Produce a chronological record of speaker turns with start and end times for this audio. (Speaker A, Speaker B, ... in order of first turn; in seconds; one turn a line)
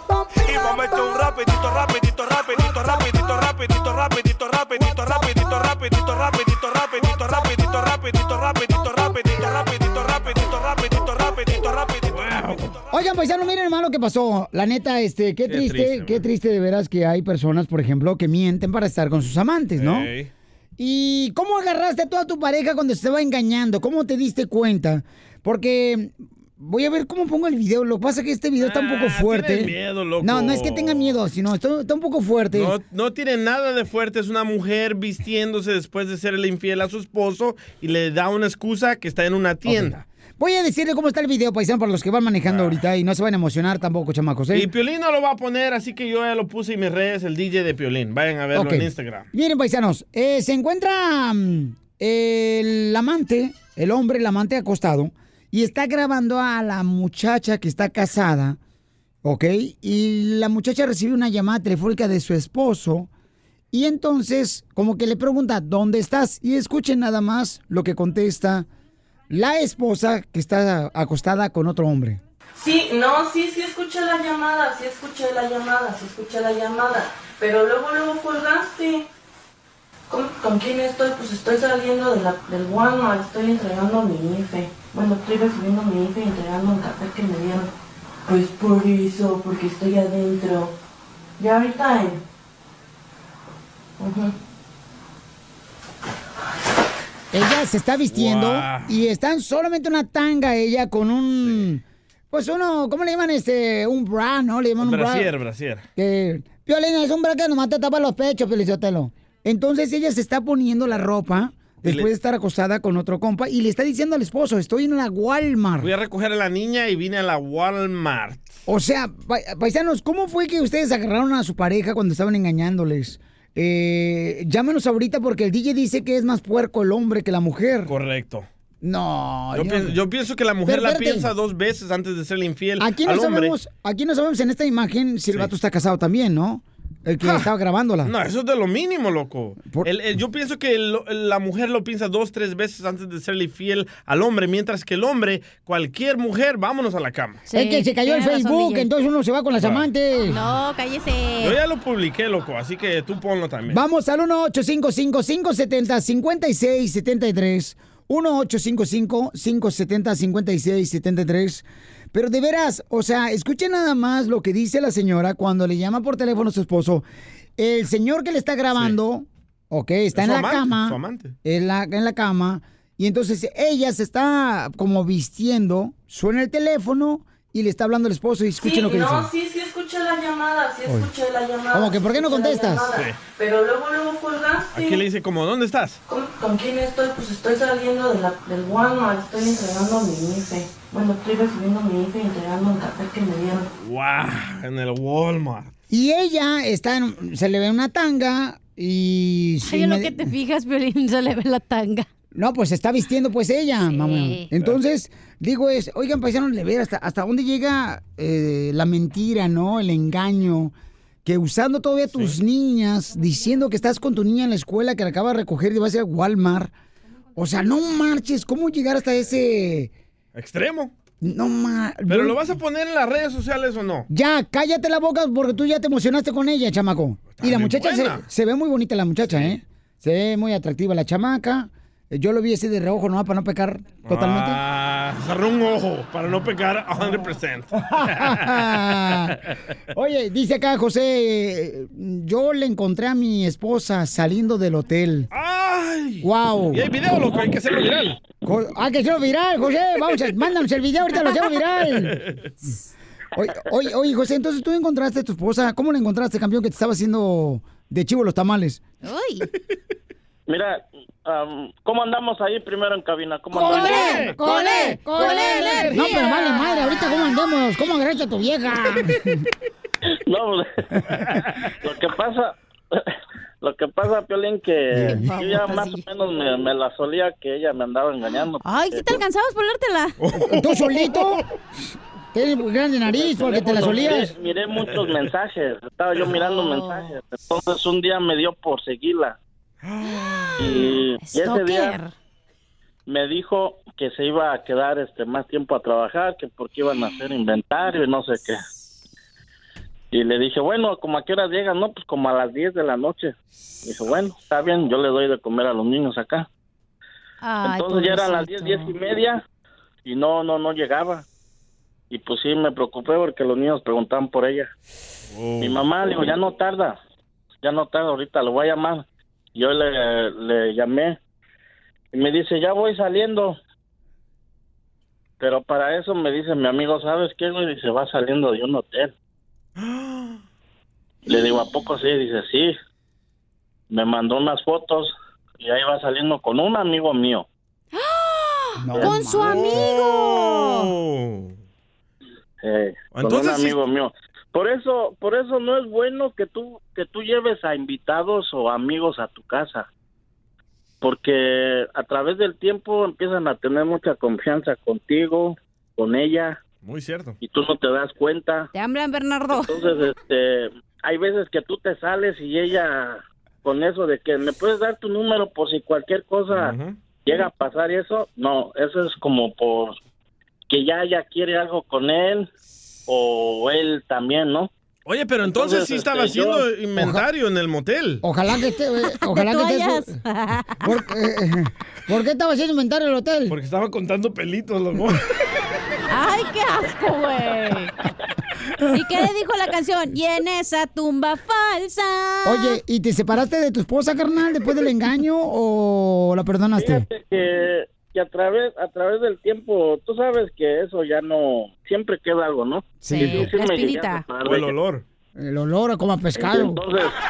Speaker A: 0.9-12.0
Speaker B: 12.1-12.8
Speaker C: 12.9-20.1
Speaker B: 15.5-16.2
Speaker B: 19.8-20.3
Speaker C: 20.8-32.7
Speaker B: 28.6-31.2
Speaker B: 32.5-40.0
Speaker C: 39.6-44.7
Speaker B: 42.4-42.8
Speaker B: 44.5-49.3
Speaker C: 48.5-58.6
Speaker C: 59.2-63.1
Speaker C: 63.7-68.7
Speaker C: 69.3-72.2
Speaker D: 72.6-79.1
Speaker D: 80.1-87.7
Speaker D: 88.2-90.7
Speaker D: 91.4-92.2
Speaker D: 94.0-94.3
Speaker C: 97.3-105.3
Speaker B: 98.1-99.0
Speaker B: 101.4-101.7
Speaker B: 104.8-105.8
Speaker C: 106.0-115.9
Speaker B: 111.8-112.1
Speaker B: 115.8-118.5
Speaker C: 118.7-127.9
Speaker B: 127.9-128.5
Speaker C: 128.8-130.0
Speaker B: 129.5-133.6
Speaker C: 130.7-131.3
Speaker C: 132.8-138.1
Speaker B: 137.2-137.5
Speaker B: 138.0-147.4
Speaker E: 147.5-148.9
Speaker C: 147.5-150.4
Speaker B: 149.6-149.9
Speaker E: 150.2-151.6
Speaker B: 151.4-153.8
Speaker C: 153.7-167.0
Speaker C: 167.6-179.3
Speaker B: 170.1-171.3
Speaker D: 178.6-185.0
Speaker C: 181.7-182.9
Speaker B: 182.9-183.2
Speaker B: 184.7-186.0
Speaker D: 186.1-193.7
Speaker B: 193.8-195.7
Speaker C: 195.9-200.3
Speaker E: 199.6-202.1
Speaker C: 202.3-210.7
Speaker E: 203.8-204.5
Speaker C: 211.2-216.7
Speaker C: 217.3-219.9
Speaker B: 220.3-220.9
Speaker C: 221.2-222.4
Speaker B: 222.1-224.1
Speaker C: 224.1-234.6
Speaker B: 227.3-228.2
Speaker B: 229.3-229.6
Speaker B: 234.0-238.5
Speaker C: 237.8-239.4
Speaker C: 239.9-245.3
Speaker B: 245.3-248.2
Speaker C: 246.2-246.8
Speaker C: 248.4-252.2
Speaker C: 253.3-258.8
Speaker E: 259.0-259.5
Speaker F: 260.5-264.2
Speaker C: 263.5-269.4
Speaker E: 263.5-267.2
Speaker B: 263.9-264.4
Speaker F: 270.3-270.7
Speaker F: 271.8-273.0
Speaker F: 273.6-279.2
Speaker C: 274.9-275.3
Speaker E: 275.0-276.0
Speaker E: 278.6-280.1
Speaker B: 280.2-281.2
Speaker C: 280.5-281.4
Speaker C: 282.3-284.3
Speaker F: 283.1-289.4
Speaker E: 286.4-287.1
Speaker B: 289.8-290.8
Speaker F: 290.6-292.0
Speaker E: 290.6-292.1
Speaker F: 293.1-298.6
Speaker F: 300.1-306.5
Speaker E: 307.4-308.9
Speaker F: 307.6-309.4
Speaker F: 310.0-311.2
Speaker F: 312.1-314.7
Speaker B: 315.3-315.9
Speaker F: 315.6-317.0
Speaker F: 317.6-321.2
Speaker F: 322.1-323.6
Speaker F: 325.4-329.1
Speaker B: 329.8-330.4
Speaker F: 331.2-332.8
Speaker F: 333.9-337.4
Speaker E: 337.9-340.9
Speaker C: 338.8-339.9
Speaker B: 339.4-341.6
Speaker F: 342.6-349.9
Speaker B: 343.1-343.8
Speaker F: 351.0-356.6
Speaker B: 356.8-357.4
Speaker F: 357.4-358.7
Speaker E: 358.7-359.8
Speaker F: 359.5-370.0
Speaker B: 366.5-367.0
Speaker F: 370.7-372.5
Speaker F: 373.1-374.7
Speaker B: 375.1-378.2
Speaker F: 375.5-376.6
Speaker C: 376.9-377.2
Speaker C: 378.2-380.2
Speaker E: 379.1-380.9
Speaker C: 380.8-383.6
Speaker B: 383.5-385.2
Speaker E: 386.1-387.9
Speaker E: 388.9-392.8
Speaker C: 392.4-397.1
Speaker F: 396.7-404.7
Speaker C: 403.0-403.5
Speaker E: 403.1-404.2
Speaker B: 404.4-405.0
Speaker C: 405.4-406.8
Speaker F: 406.4-407.1